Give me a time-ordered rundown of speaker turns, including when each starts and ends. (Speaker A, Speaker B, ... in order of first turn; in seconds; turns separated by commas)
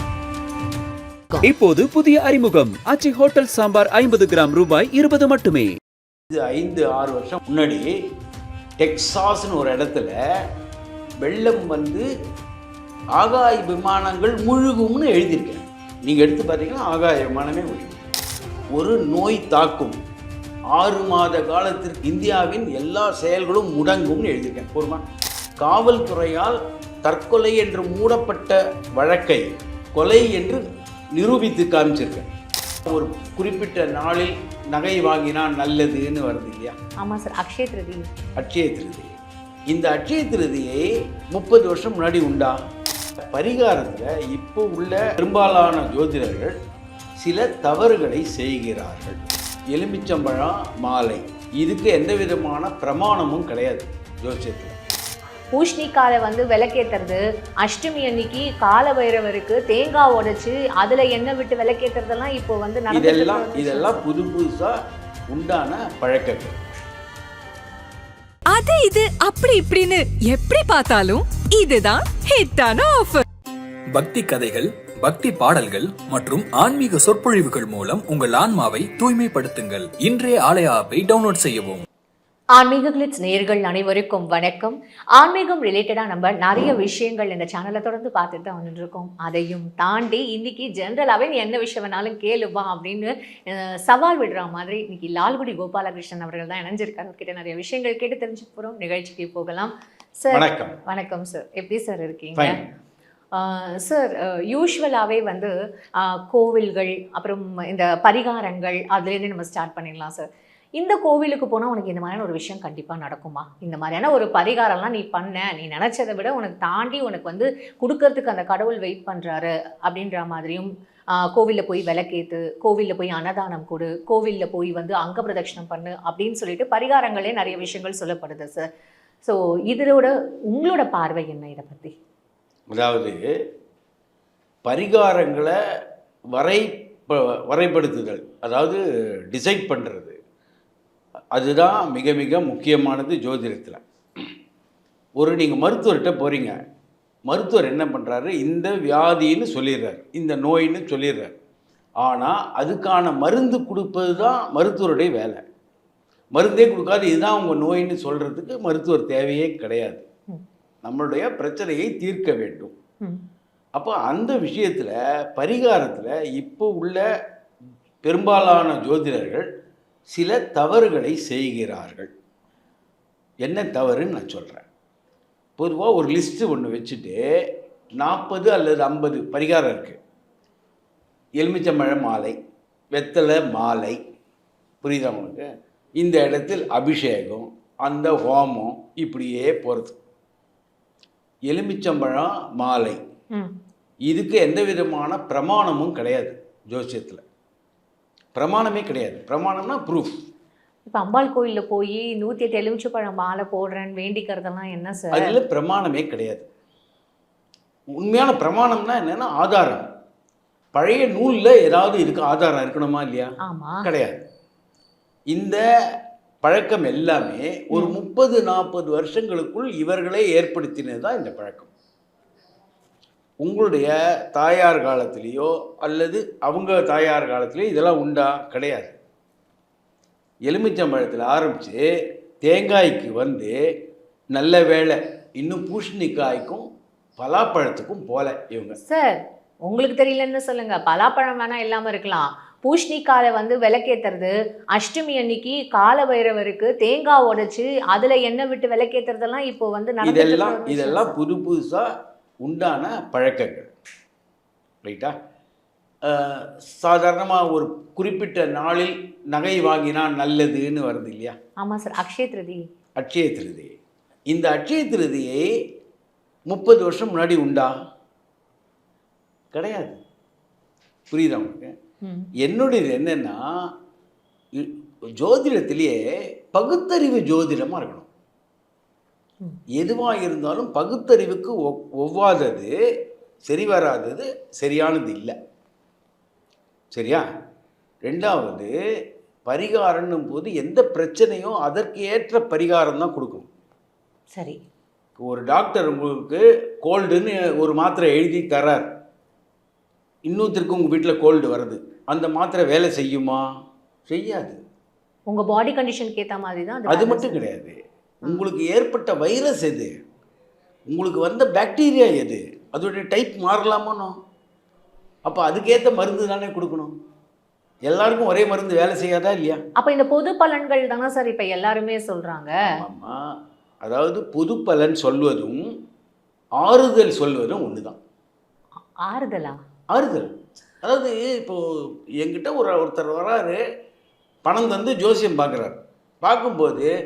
Speaker A: 1.4-5.7, Speaker B: 6.3-7.9, Speaker B: 8.8-10.1, Speaker B: 11.2-12.0, Speaker B: 13.2-18.0, Speaker B: 18.7-20.0, Speaker B: 20.7-25.0, Speaker B: 25.6-30.6, Speaker B: 31.1-32.3, Speaker B: 32.8-36.7, Speaker C: 37.0-38.0, Speaker B: 38.4-39.1, Speaker B: 39.7-42.6, Speaker B: 43.2-46.5, Speaker B: 47.2-54.7, Speaker C: 55.5-64.0, Speaker B: 62.9-64.8, Speaker B: 65.3-66.5, Speaker D: 68.5-73.2, Speaker E: 73.9-81.8, Speaker C: 82.6-102.6, Speaker B: 100.3-100.8, Speaker B: 102.3-102.6, Speaker C: 103.3-110.2, Speaker C: 110.8-128.6, Speaker C: 129.2-131.9, Speaker B: 132.7-133.2, Speaker B: 134.6-135.5, Speaker B: 136.3-138.8, Speaker B: 139.3-140.2, Speaker B: 141.3-143.8, Speaker B: 145.2-146.6, Speaker B: 147.3-151.3, Speaker B: 152.0-155.4, Speaker B: 156.3-160.0, Speaker B: 160.8-162.7, Speaker B: 163.8-167.0, Speaker B: 168.0-169.5, Speaker B: 170.1-172.1, Speaker B: 173.4-174.7, Speaker B: 175.6-177.2, Speaker B: 178.0-180.0, Speaker B: 181.4-182.4, Speaker B: 182.9-184.0, Speaker B: 184.8-185.4, Speaker B: 186.0-190.0, Speaker B: 191.5-193.0, Speaker B: 194.1-197.2, Speaker B: 198.3-200.1, Speaker C: 200.9-205.3, Speaker B: 205.1-206.5, Speaker B: 207.9-209.8, Speaker B: 210.7-213.3, Speaker C: 213.5-213.8, Speaker B: 213.8-214.2, Speaker B: 215.3-215.6, Speaker B: 216.4-221.7, Speaker B: 223.4-228.9, Speaker B: 230.4-231.8, Speaker B: 232.4-233.5, Speaker B: 234.3-236.6, Speaker B: 237.2-238.8, Speaker C: 238.8-251.2, Speaker B: 250.0-251.9, Speaker B: 252.4-253.7, Speaker B: 254.8-255.1, Speaker B: 256.1-261.4, Speaker C: 261.6-262.6, Speaker B: 263.0-263.8, Speaker B: 264.3-265.4, Speaker B: 266.5-267.7, Speaker B: 269.5-270.0, Speaker B: 271.1-271.7, Speaker C: 272.0-272.3, Speaker B: 272.4-273.4, Speaker B: 274.6-276.0, Speaker B: 276.5-278.1, Speaker B: 279.8-282.7, Speaker B: 283.5-285.3, Speaker B: 286.9-287.2, Speaker B: 288.1-288.7, Speaker B: 289.4-293.5, Speaker C: 294.3-294.6, Speaker B: 295.2-298.9, Speaker B: 300.3-303.4, Speaker B: 304.1-304.6, Speaker C: 305.3-307.4, Speaker B: 306.9-309.9, Speaker B: 310.9-314.1, Speaker B: 315.2-316.9, Speaker B: 317.9-319.6, Speaker C: 319.8-322.6, Speaker B: 322.6-323.2, Speaker B: 323.8-325.6, Speaker B: 326.6-328.0, Speaker C: 329.0-329.6, Speaker B: 329.9-330.3, Speaker B: 330.8-331.6, Speaker B: 332.2-333.6, Speaker B: 334.4-336.9